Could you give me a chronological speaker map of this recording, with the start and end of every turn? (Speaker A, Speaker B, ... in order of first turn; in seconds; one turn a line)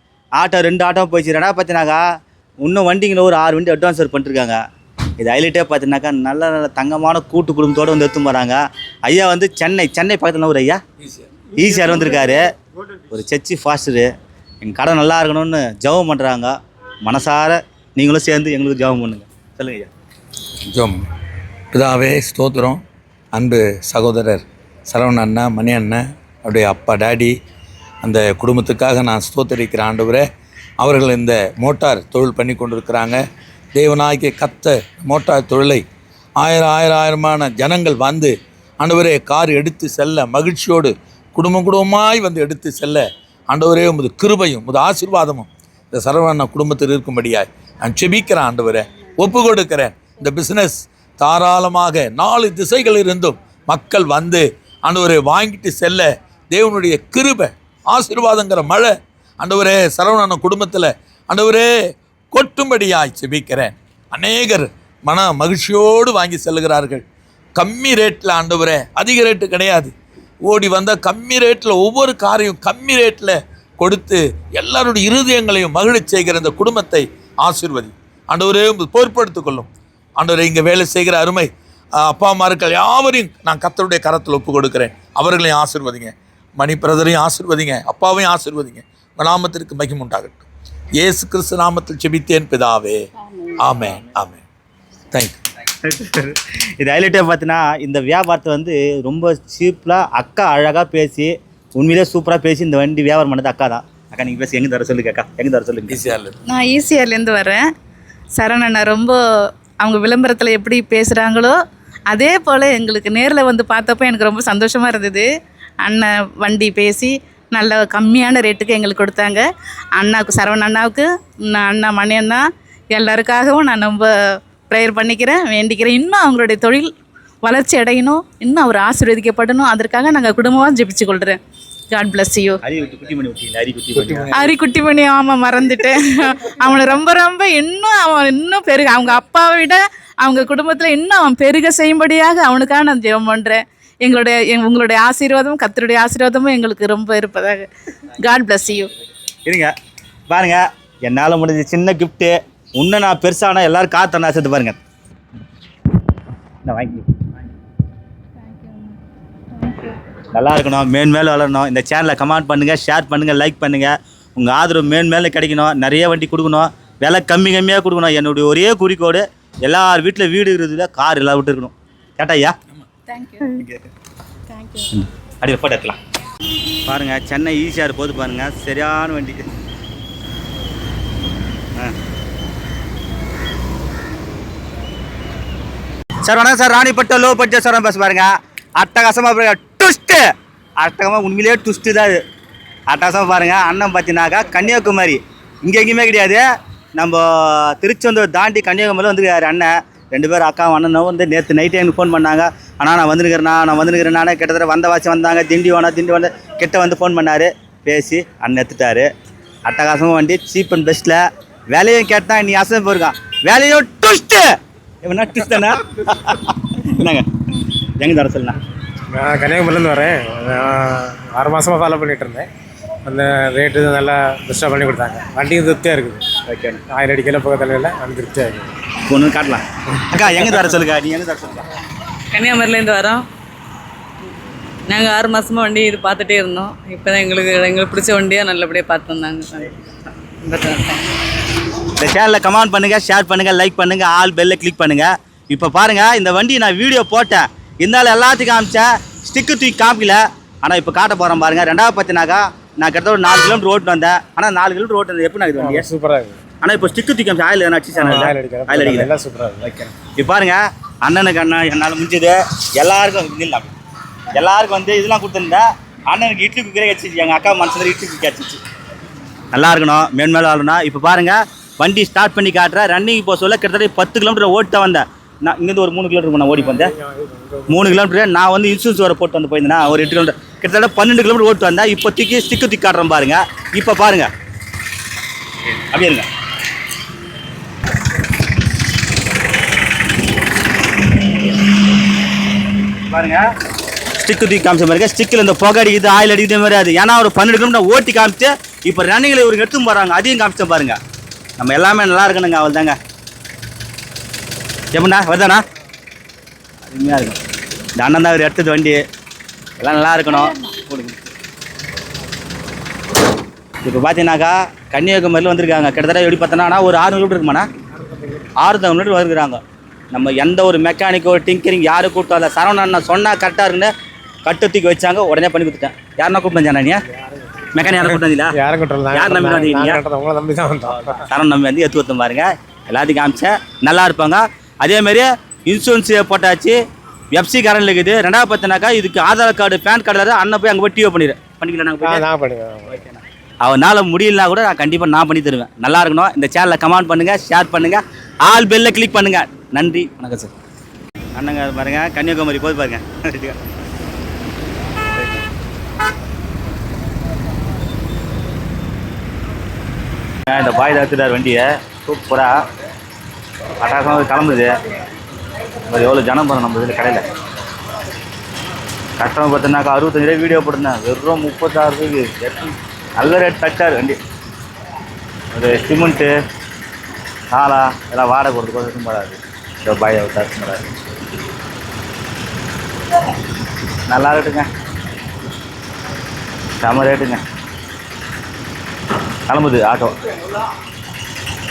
Speaker A: 0.3-2.0
Speaker A: 2.6-4.6
Speaker A: 5.2-10.8
Speaker B: 11.0-11.5
Speaker A: 11.6-12.5
Speaker A: 13.1-14.1
Speaker A: 14.6-16.5
Speaker A: 17.0-19.9
Speaker B: 20.7-21.0
Speaker B: 21.7-22.8
Speaker B: 23.3-27.3
Speaker B: 28.0-30.2
Speaker B: 30.8-33.2
Speaker B: 33.7-35.8
Speaker B: 36.4-61.7
Speaker B: 62.3-67.0
Speaker B: 67.6-69.9
Speaker B: 70.4-90.5
Speaker B: 91.0-93.0
Speaker B: 93.6-94.4
Speaker B: 95.1-95.4
Speaker A: 95.8-106.0
Speaker B: 105.9-106.3
Speaker C: 106.5-107.6
Speaker C: 108.3-109.2
Speaker C: 109.8-111.6
Speaker C: 112.1-115.2
Speaker C: 115.8-119.4
Speaker C: 120.0-124.1
Speaker C: 124.7-126.9
Speaker C: 127.4-131.4
Speaker C: 131.9-132.6
Speaker A: 132.6-134.3
Speaker B: 133.9-134.5
Speaker C: 134.3-148.9
Speaker A: 149.4-149.7
Speaker A: 150.3-154.8
Speaker A: 156.6-157.3
Speaker C: 158.5-158.9
Speaker A: 160.3-172.5
Speaker C: 173.1-173.5
Speaker A: 173.4-173.8
Speaker C: 174.5-174.9
Speaker A: 174.9-176.0
Speaker A: 176.8-179.4
Speaker A: 186.2-190.2
Speaker A: 190.8-192.2
Speaker A: 192.9-196.4
Speaker A: 196.9-209.1
Speaker A: 209.6-211.2
Speaker A: 211.7-214.4
Speaker A: 215.0-217.2
Speaker A: 218.0-218.6
Speaker D: 219.1-222.5
Speaker D: 223.0-226.2
Speaker A: 226.4-226.8
Speaker D: 226.9-228.7
Speaker A: 229.0-231.7
Speaker D: 230.2-230.5
Speaker E: 232.3-233.2
Speaker E: 234.9-239.7
Speaker E: 240.4-241.0
Speaker A: 241.9-255.9
Speaker D: 255.6-256.4
Speaker A: 256.6-259.1
Speaker D: 257.9-259.7
Speaker A: 259.6-263.7
Speaker A: 264.3-268.6
Speaker A: 269.5-276.9
Speaker D: 276.5-278.0
Speaker A: 277.7-284.3
Speaker A: 285.7-286.3
Speaker A: 293.1-293.4
Speaker A: 294.2-301.0
Speaker A: 301.6-303.0
Speaker A: 304.9-305.6
Speaker A: 306.9-307.4
Speaker A: 308.0-309.0
Speaker A: 309.8-311.2
Speaker A: 313.8-317.6
Speaker D: 317.9-318.5
Speaker A: 318.6-319.6
Speaker A: 320.1-323.9
Speaker A: 324.4-327.0
Speaker A: 327.7-328.5
Speaker D: 328.0-331.2
Speaker A: 329.1-330.0
Speaker A: 331.1-336.8
Speaker A: 337.3-342.2
Speaker D: 342.0-342.9
Speaker A: 342.9-350.5
Speaker A: 351.3-353.6
Speaker A: 360.5-362.6
Speaker A: 363.8-364.8
Speaker A: 365.9-367.2
Speaker A: 369.2-374.2
Speaker A: 375.5-376.3
Speaker A: 377.5-380.8
Speaker A: 384.1-384.7
Speaker A: 386.8-387.4
Speaker A: 389.5-390.2